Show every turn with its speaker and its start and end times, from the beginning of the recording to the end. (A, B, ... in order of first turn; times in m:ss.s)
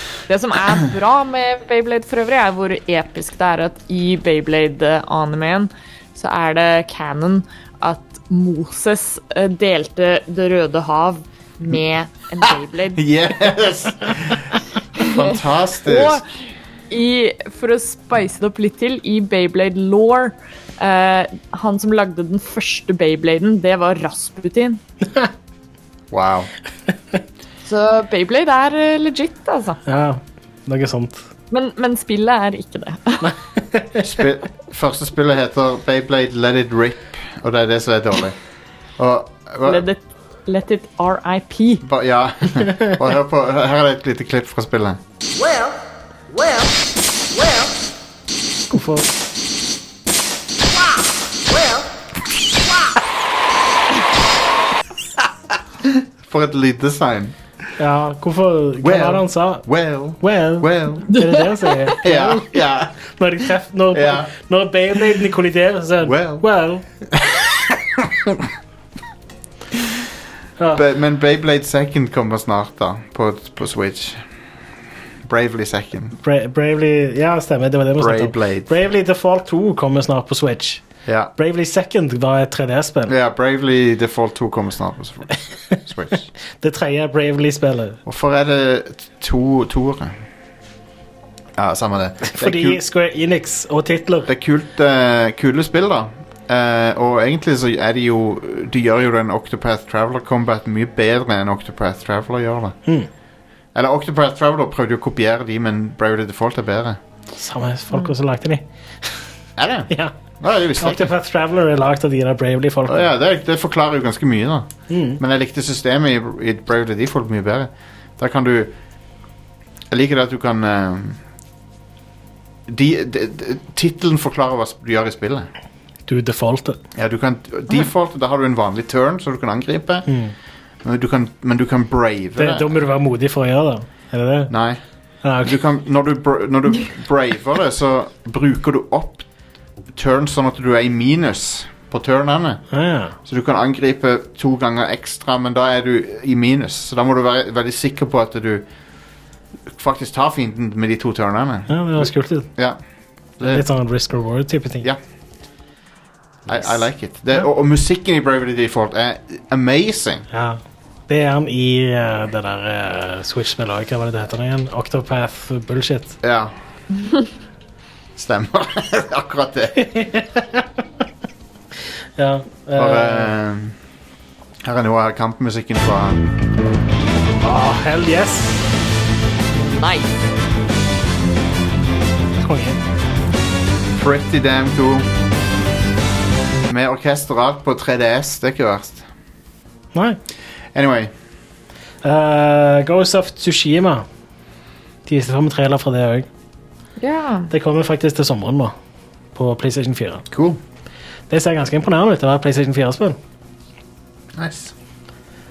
0:00.3-0:13.0 A
0:12.4-0:16.2 B
0:15.0-0:16.2 A
0:16.9-0:24.8 A
0:26.1-0:26.5 B
0:27.6-0:29.8 A
0:29.8-0:31.3 C
0:31.5-0:33.3 A
0:33.2-0:34.0 C
0:34.0-0:38.4 B
0:39.0-0:39.8 B
0:39.6-0:41.8 A
0:41.8-0:45.0 B
0:48.7-0:49.1 C
0:55.8-0:57.4 B
0:57.8-0:59.6 C
0:58.8-1:01.2 B
1:00.2-1:06.8 C
1:02.0-1:02.9 B
1:03.9-1:04.3 B
1:06.0-1:06.4 B
1:07.1-1:08.5 B
1:10.7-1:14.2 B
1:15.2-1:16.2 B
1:16.2-1:20.8 C
1:18.0-1:18.7 B
1:21.0-1:21.3 B
1:21.4-1:23.1 C
1:23.1-1:26.3 B
1:26.6-1:28.0 C
1:28.0-1:30.2 B
1:31.6-1:32.8 B
1:32.2-1:34.3 C
1:34.3-1:42.8 B
1:43.7-1:47.0 B
1:47.4-1:49.2 C
1:49.6-1:51.1 B
1:50.8-1:53.1 C
1:52.9-1:58.7 B
1:54.9-1:55.2 C
1:59.9-2:01.2 B
2:02.7-2:05.5 B
2:06.1-2:06.8 C
2:06.9-2:10.1 B
2:10.1-2:10.3 C
2:10.8-2:12.8 B
2:12.4-2:14.5 C
2:14.5-2:14.8 B
2:15.2-2:15.6 C
2:15.4-2:19.3 B
2:19.9-2:22.6 B
2:22.7-2:23.2 C
2:23.2-2:28.6 B
2:29.7-2:32.8 B
2:31.7-2:32.5 C
2:33.4-2:33.7 B
2:33.4-2:34.9 C
2:36.5-2:40.2 B
2:40.3-2:46.2 C
2:46.2-2:46.5 B
2:48.1-2:49.9 B
2:49.8-2:50.7 C
2:52.2-2:53.3 C
2:52.7-2:53.8 B
2:54.6-2:56.3 B
2:57.4-2:58.6 C
2:59.6-3:00.1 A
3:02.4-3:02.8 C
3:03.9-3:05.1 B
3:06.7-3:09.0 B
3:10.7-3:11.1 B
3:12.0-3:14.0 C
3:15.0-3:16.3 C
3:17.0-3:17.5 A
3:17.5-3:18.7 C
3:19.3-3:20.2 C
3:20.3-3:20.6 B
3:21.3-3:23.2 C
3:24.3-3:24.7 B